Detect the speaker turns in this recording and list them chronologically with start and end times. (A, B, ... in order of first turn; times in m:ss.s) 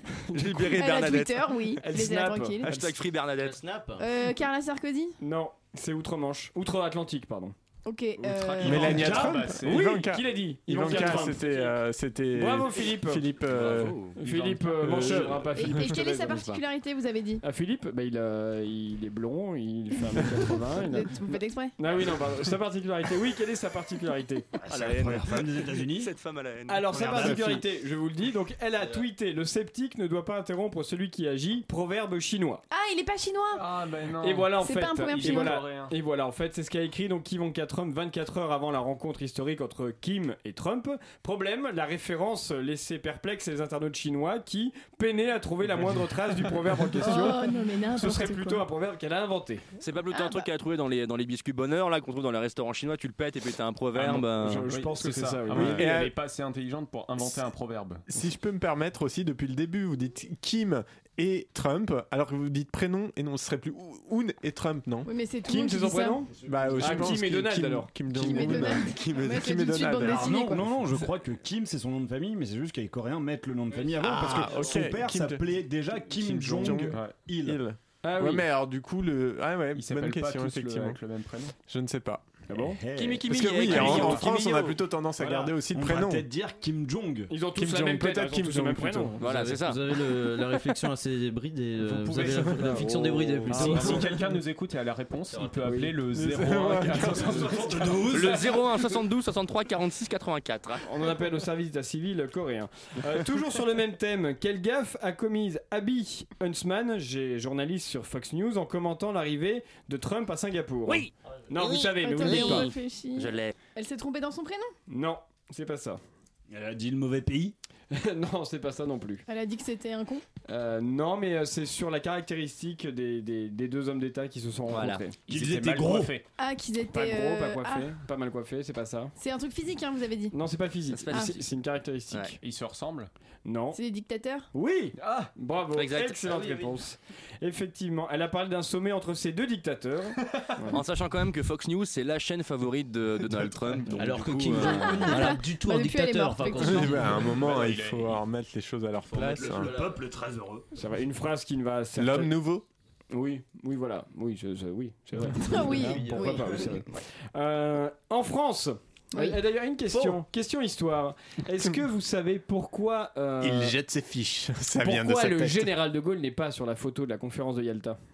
0:00.2-0:00.7 A
0:00.3-0:01.8 B
0:00.7-0:02.7 C
0:01.8-0:02.9 A
0:02.6-0:03.6 B
0:03.4-0:04.0 D
0:04.0-0:05.2 C
0:05.2-0:07.5 A
0:07.8-0:09.0 C
0:08.2-0:10.0 E
0:08.6-0:14.0 F
0:08.6-0:09.5 G
0:09.0-0:11.8 A
0:10.9-0:11.3 E
0:12.3-0:13.3 A
0:13.5-0:14.1 D
0:13.7-0:16.6 E
0:14.2-0:16.5 A
0:15.5-0:17.4 C
0:17.4-0:24.5 A
0:20.7-0:21.7 C
0:24.6-0:26.1 G
0:24.7-0:27.4 B
0:26.7-0:32.6 A
0:26.9-0:27.6 G
0:32.7-0:33.7 C
0:33.5-0:34.5 E
0:34.2-0:49.6 A
0:34.6-0:35.7 C
0:35.1-0:35.9 E
0:47.0-0:48.6 C
0:49.8-0:54.7 B
0:54.0-0:58.0 E
0:54.2-0:55.9 A
0:55.5-0:56.2 F
0:58.1-1:05.1 F
1:05.0-1:06.3 C
1:05.4-1:08.7 A
1:06.4-1:10.6 F
1:08.1-1:10.7 C
1:10.0-1:17.6 G
1:14.0-1:15.5 F
1:16.2-1:21.0 F
1:16.9-1:17.2 E
1:18.0-1:18.4 A
1:19.7-1:21.5 E
1:21.6-1:22.2 F
1:22.5-1:22.8 A
1:22.5-1:24.2 G
1:23.0-1:24.6 B
1:23.2-1:26.3 F
1:23.3-1:25.4 A
1:23.7-1:24.2 E
1:25.2-1:27.3 G
1:27.3-1:29.2 A
1:27.5-1:29.2 F
1:29.2-1:29.8 B
1:29.2-1:34.1 D
1:31.8-1:38.2 E
1:32.2-1:32.8 F
1:32.2-1:34.2 A
1:35.6-1:35.9 A
1:36.1-1:38.1 F
1:37.3-1:38.4 D
1:38.0-1:40.8 B
1:40.8-1:52.7 A
1:50.9-1:53.5 B
1:52.0-1:54.7 C
1:54.9-1:56.0 A
1:56.5-1:57.6 G
1:57.9-1:59.2 A
1:59.3-2:00.2 C
2:00.5-2:05.2 A
2:04.7-2:05.0 B
2:05.3-2:06.2 E
2:05.3-2:06.2 G
2:06.4-2:07.9 C
2:06.9-2:09.1 A
2:09.2-2:10.3 C
2:10.3-2:12.4 A
2:10.9-2:11.4 B
2:12.4-2:13.1 E
2:13.4-2:13.8 A
2:13.7-2:14.5 C
2:14.5-2:20.8 A
2:15.0-2:15.3 E
2:15.7-2:16.6 B
2:20.7-2:25.4 B
2:23.9-2:27.2 D
2:24.5-2:27.1 C
2:26.6-2:29.7 F
2:27.1-2:28.2 E
2:29.1-2:30.6 G
2:29.2-2:30.0 D
2:30.7-2:32.4 A
2:32.0-2:32.6 F
2:33.1-2:43.8 A
2:35.4-2:36.7 C
2:35.8-2:36.4 D
2:39.1-2:39.4 C
2:43.4-2:45.7 F
2:44.8-2:48.0 A